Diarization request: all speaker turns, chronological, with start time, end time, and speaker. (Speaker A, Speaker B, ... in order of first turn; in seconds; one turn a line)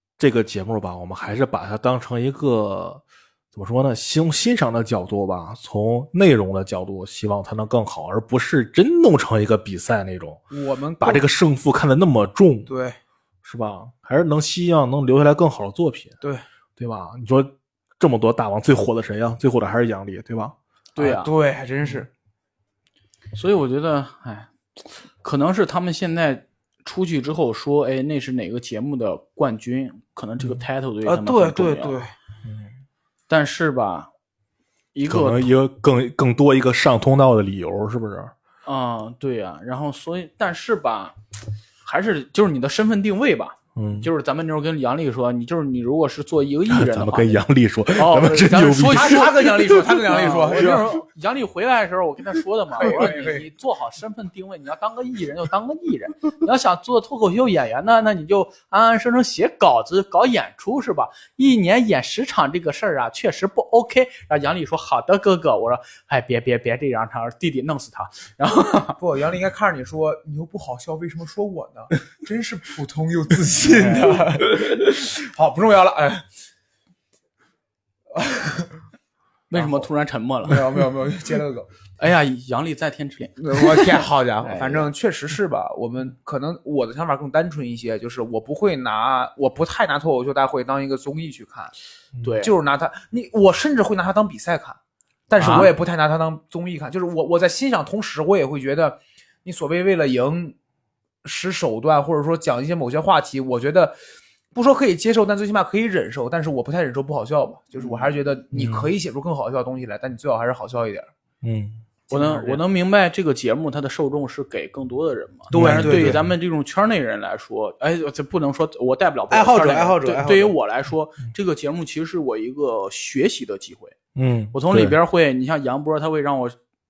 Speaker A: 0.2-3.0
Speaker A: 3.5-10.4
Speaker B: 10.5-11.2
Speaker A: 11.0-12.7
Speaker B: 12.7-13.0
Speaker A: 13.4-16.1
Speaker A: 16.8-20.5
Speaker C: 20.9-21.3
Speaker B: 21.0-22.1
Speaker C: 23.3-32.0
Speaker B: 31.0-32.1
Speaker C: 33.3-34.1
Speaker C: 34.9-35.5
Speaker A: 35.1-38.3
Speaker C: 38.6-41.2
Speaker C: 41.8-47.4
Speaker A: 43.8-44.1
Speaker A: 46.7-50.0
Speaker C: 47.9-69.0
Speaker B: 48.9-51.0
Speaker A: 50.5-50.9
Speaker B: 52.8-53.5
Speaker B: 69.0-76.2
Speaker C: 73.5-74.5
Speaker B: 78.1-78.8
Speaker C: 79.5-80.7
Speaker B: 79.5-79.9
Speaker B: 80.4-81.7
Speaker C: 82.0-84.9
Speaker B: 83.4-91.7
Speaker C: 92.2-92.5
Speaker B: 92.4-94.8
Speaker B: 95.3-100.5
Speaker C: 95.4-95.7
Speaker B: 101.2-103.9
Speaker B: 104.5-111.1
Speaker A: 108.5-108.9
Speaker A: 111.4-111.8
Speaker B: 112.1-112.6
Speaker C: 112.1-124.0
Speaker B: 115.5-116.2
Speaker A: 115.5-116.3
Speaker B: 119.3-120.5
Speaker A: 124.2-125.0
Speaker C: 124.5-126.5